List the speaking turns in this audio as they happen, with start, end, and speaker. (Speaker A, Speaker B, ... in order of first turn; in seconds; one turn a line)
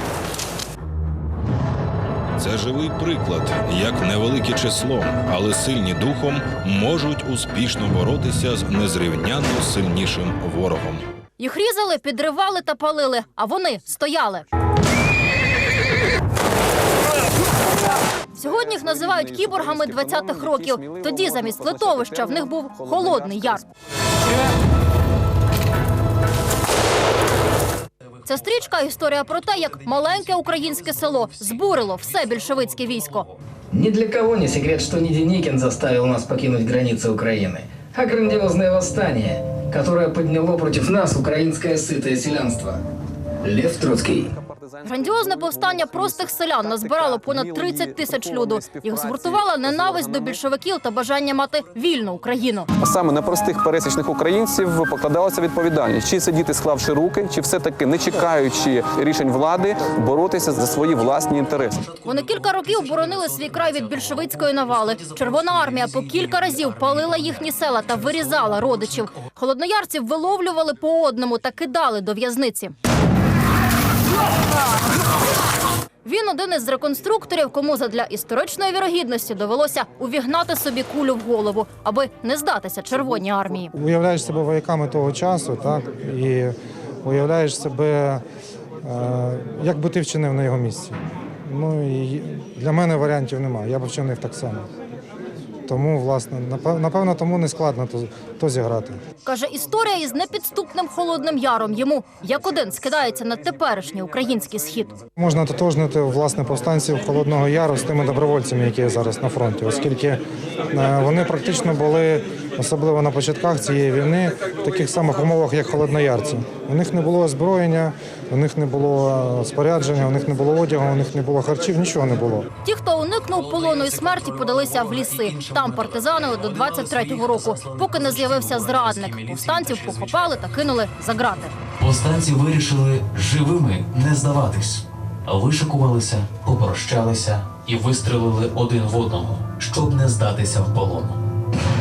Speaker A: 2.4-11.0
Speaker B: 11.4-14.5
Speaker B: 18.3-23.6
Speaker C: 18.4-23.6
Speaker B: 28.2-33.3
Speaker D: 29.4-33.3
Speaker E: 33.7-42.8
Speaker E: 43.4-44.3
Speaker C: 44.1-50.4
Speaker B: 44.8-52.7
Speaker C: 52.8-61.9
Speaker D: 61.9-68.8
Speaker B: 62.0-72.7
Speaker B: 76.0-83.7
Speaker F: 83.7-88.2
Speaker F: 88.8-94.7
Speaker F: 95.7-99.0
Speaker B: 99.2-105.0
Speaker F: 105.2-122.5
Speaker B: 122.6-131.6
Speaker D: 123.3-130.4
Speaker D: 131.8-141.2